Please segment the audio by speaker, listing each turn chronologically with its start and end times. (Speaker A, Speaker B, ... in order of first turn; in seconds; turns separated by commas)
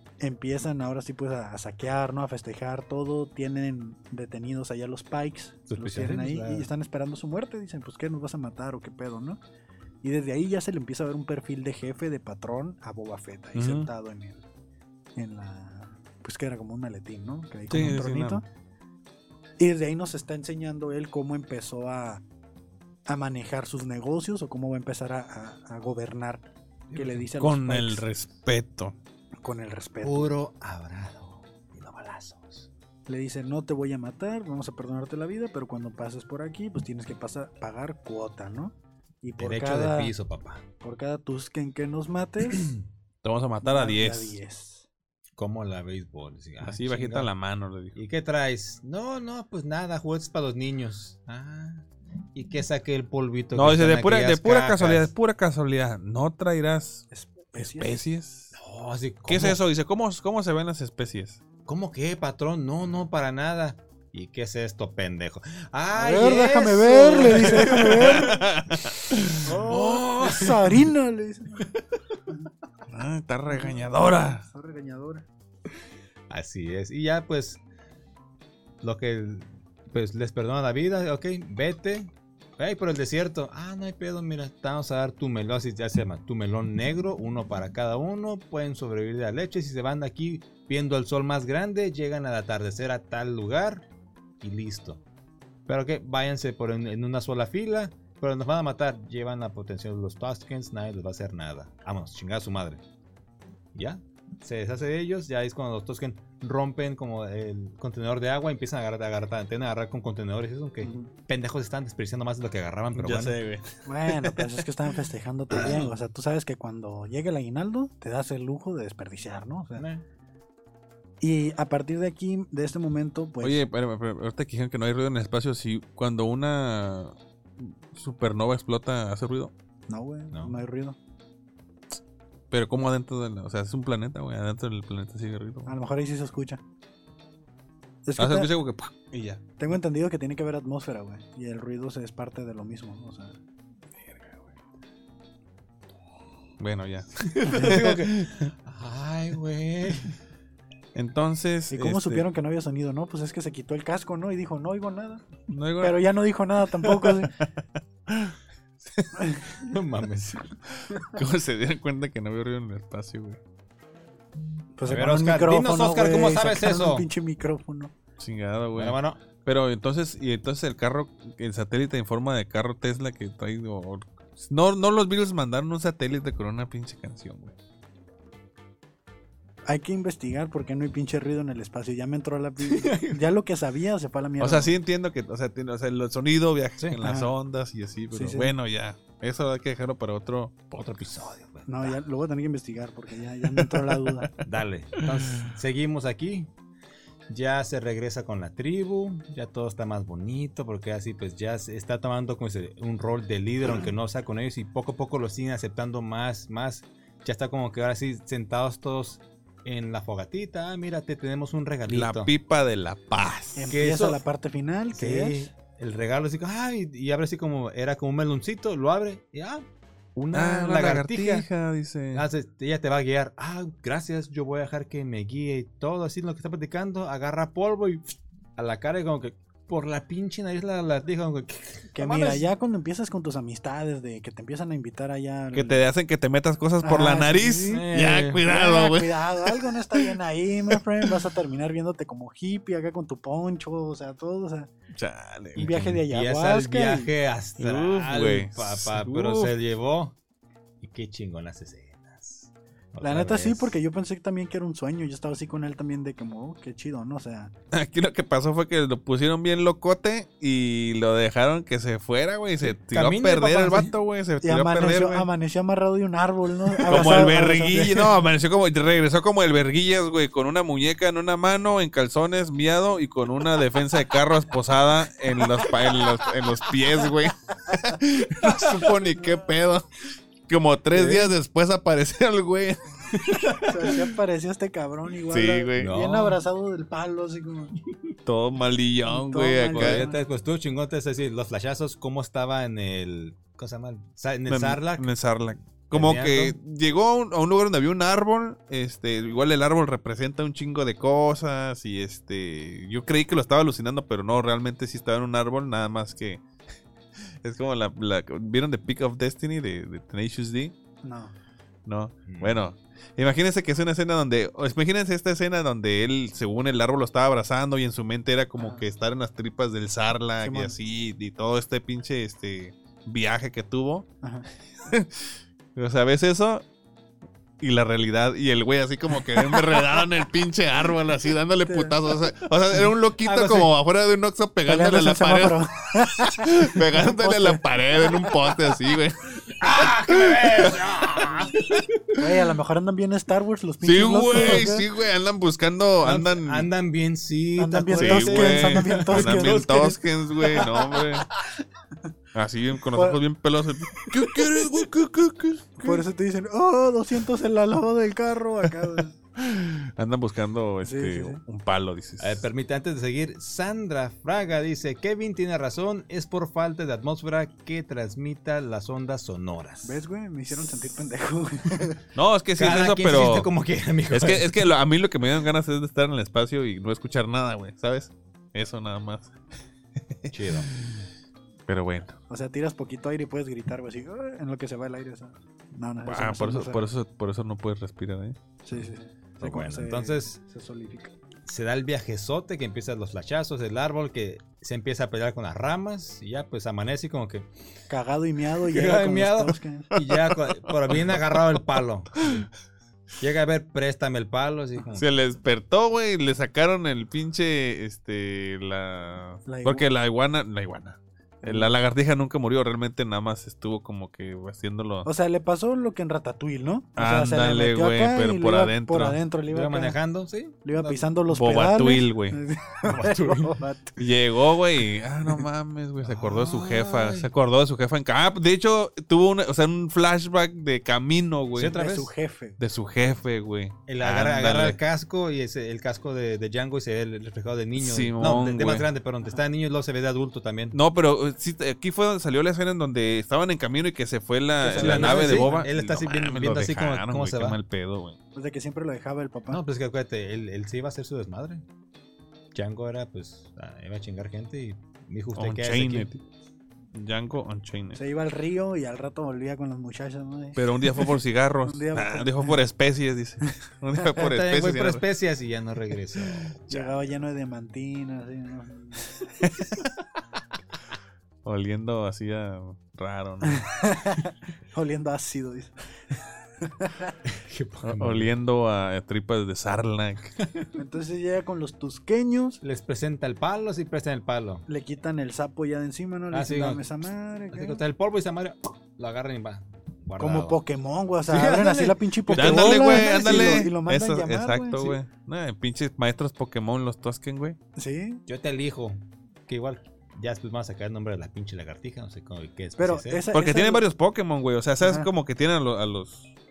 Speaker A: 0.2-9.4, Speaker B: 5.7-6.7, Speaker A: 10.0-14.4, Speaker C: 13.5-13.9, Speaker A: 15.2-18.4, Speaker C: 17.7-18.4, Speaker A: 19.6-22.2, Speaker A: 23.1-26.4, Speaker B: 26.9-27.3, Speaker A: 26.9-28.1, Speaker C: 27.4-28.9, Speaker A: 29.4-30.3, Speaker B: 30.0-32.7, Speaker A: 33.1-40.1, Speaker B: 39.4-40.6, Speaker A: 40.8-42.7, Speaker C: 43.2-44.4, Speaker A: 43.6-44.8, Speaker B: 45.4-47.3, Speaker C: 46.6-48.0, Speaker B: 47.9-55.1, Speaker C: 53.5-58.5, Speaker A: 57.1-58.0, Speaker B: 58.5-59.6, Speaker C: 59.3-61.4, Speaker B: 61.6-68.4, Speaker A: 65.9-68.4, Speaker C: 68.0-70.0, Speaker A: 69.4-71.7, Speaker B: 69.7-70.5, Speaker C: 72.9-74.4, Speaker A: 73.5-75.2, Speaker B: 76.3-77.6, Speaker B: 78.8-93.8, Speaker B: 94.4-95.0, Speaker B: 95.7-102.8, Speaker B: 103.7-113.4, Speaker A: 110.8-111.1, Speaker C: 113.0-114.6, Speaker A: 113.8-119.8, Speaker C: 115.5-115.9, Speaker B: 115.5-115.9, Speaker B: 119.8-120.0, Speaker A: 121.2-123.6, Speaker C: 123.4-129.5, Speaker A: 129.9-130.9, Speaker B: 130.3-130.6, Speaker C: 132.5-135.7, Speaker A: 135.7-136.6, Speaker A: 138.0-138.5, Speaker C: 138.2-139.4, Speaker A: 139.6-143.3, Speaker C: 144.0-144.5, Speaker C: 146.6-148.5, Speaker B: 147.2-150.1, Speaker C: 150.9-152.2, Speaker A: 151.7-155.3, Speaker C: 155.5-156.0, Speaker A: 155.8-157.4, Speaker C: 156.8-157.3, Speaker C: 158.1-159.1, Speaker A: 159.1-159.6, Speaker B: 159.5-160.5, Speaker C: 160.8-163.4, Speaker A: 164.8-167.9, Speaker B: 164.8-167.1, Speaker C: 168.2-177.5, Speaker B: 168.7-169.2, Speaker A: 179.7-184.7, Speaker B: 182.6-183.2, Speaker C: 184.4-191.0, Speaker A: 187.0-187.3, Speaker A: 188.1-188.5, Speaker B: 190.8-192.0, Speaker A: 191.7-194.3, Speaker C: 193.5-194.3, Speaker B: 194.4-196.5, Speaker C: 195.0-195.5, Speaker B: 197.3-212.3, Speaker C: 211.9-213.7, Speaker A: 213.5-215.5, Speaker B: 213.7-214.2, Speaker B: 214.9-221.5, Speaker C: 220.3-222.2, Speaker B: 222.1-232.4, Speaker A: 231.9-235.8, Speaker C: 235.5-240.1, Speaker A: 236.8-237.7, Speaker B: 237.7-238.4, Speaker A: 238.4-244.7, Speaker C: 240.7-241.1, Speaker C: 244.9-245.7, Speaker B: 245.6-250.2, Speaker A: 245.6-247.1, Speaker C: 247.6-249.5, Speaker B: 250.8-253.8, Speaker A: 253.0-257.5, Speaker C: 257.7-265.3, Speaker B: 262.7-263.9, Speaker A: 264.4-268.2, Speaker C: 266.8-279.9, Speaker B: 275.6-275.9, Speaker B: 278.4-278.8, Speaker C: 280.5-282.8, Speaker B: 280.9-281.3, Speaker B: 283.1-283.9, Speaker A: 283.6-287.8, Speaker C: 285.3-285.9, Speaker B: 285.8-286.4, Speaker C: 288.2-290.0, Speaker A: 289.1-290.2, Speaker B: 289.7-295.1, Speaker C: 294.5-306.4, Speaker B: 295.9-296.5, Speaker C: 307.4-310.7, Speaker A: 311.0-311.3, Speaker C: 311.9-324.1, Speaker B: 312.2-312.6, Speaker A: 318.6-318.8, Speaker A: 320.4-320.7, Speaker C: 324.8-326.6, Speaker C: 327.6-340.8, Speaker A: 331.6-332.0, Speaker B: 333.2-333.7, Speaker A: 334.7-338.6, Speaker B: 339.6-342.0, Speaker A: 342.1-344.9, Speaker C: 343.8-346.7, Speaker B: 346.0-351.0, Speaker A: 347.6-350.9, Speaker C: 347.9-351.3, Speaker C: 352.3-356.0, Speaker A: 352.9-353.2, Speaker A: 354.0-354.5, Speaker A: 355.8-359.1, Speaker C: 358.7-362.4, Speaker A: 360.8-361.4, Speaker B: 362.2-370.0, Speaker A: 369.8-372.0, Speaker C: 372.1-373.5, Speaker B: 372.6-374.5, Speaker C: 374.1-379.3, Speaker C: 380.1-381.1, Speaker B: 380.3-380.7, Speaker C: 381.7-382.2, Speaker A: 382.3-386.8, Speaker C: 386.0-388.4, Speaker A: 388.6-391.1, Speaker B: 389.4-390.4, Speaker B: 391.4-397.5, Speaker A: 397.9-399.9, Speaker B: 398.6-402.5, Speaker C: 400.0-401.1, Speaker B: 403.2-405.1, Speaker C: 404.9-415.1, Speaker A: 409.4-409.9, Speaker A: 411.4-411.7, Speaker A: 415.0-419.9, Speaker C: 417.0-419.2, Speaker B: 419.5-421.0, Speaker A: 420.6-424.0, Speaker C: 421.3-422.4, Speaker B: 422.8-423.6, Speaker C: 424.0-431.7, Speaker B: 426.0-427.3, Speaker B: 431.5-432.1, Speaker A: 431.7-432.6, Speaker C: 432.6-434.8, Speaker B: 433.9-440.8, Speaker C: 437.8-438.9, Speaker C: 440.7-448.2, Speaker A: 444.6-445.7, Speaker B: 444.7-447.6, Speaker A: 448.3-449.6, Speaker B: 449.5-451.6, Speaker B: 452.5-456.1, Speaker C: 455.4-456.2, Speaker C: 456.9-458.0, Speaker A: 457.9-462.6, Speaker C: 460.6-465.0, Speaker A: 463.5-464.2, Speaker B: 464.2-467.0, Speaker A: 466.7-469.6, Speaker C: 469.6-469.9, Speaker C: 471.4-473.7, Speaker A: 473.4-475.7, Speaker A: 476.6-477.1, Speaker B: 477.2-478.3, Speaker C: 477.8-480.4, Speaker A: 480.7-482.6, Speaker B: 482.6-484.6, Speaker A: 484.7-487.8, Speaker B: 486.3-486.9, Speaker B: 487.5-490.6, Speaker A: 490.2-495.0, Speaker B: 491.3-493.6, Speaker C: 492.3-497.6, Speaker A: 497.8-498.2, Speaker B: 498.3-503.2, Speaker A: 502.8-503.8, Speaker C: 503.3-506.3, Speaker A: 504.8-505.1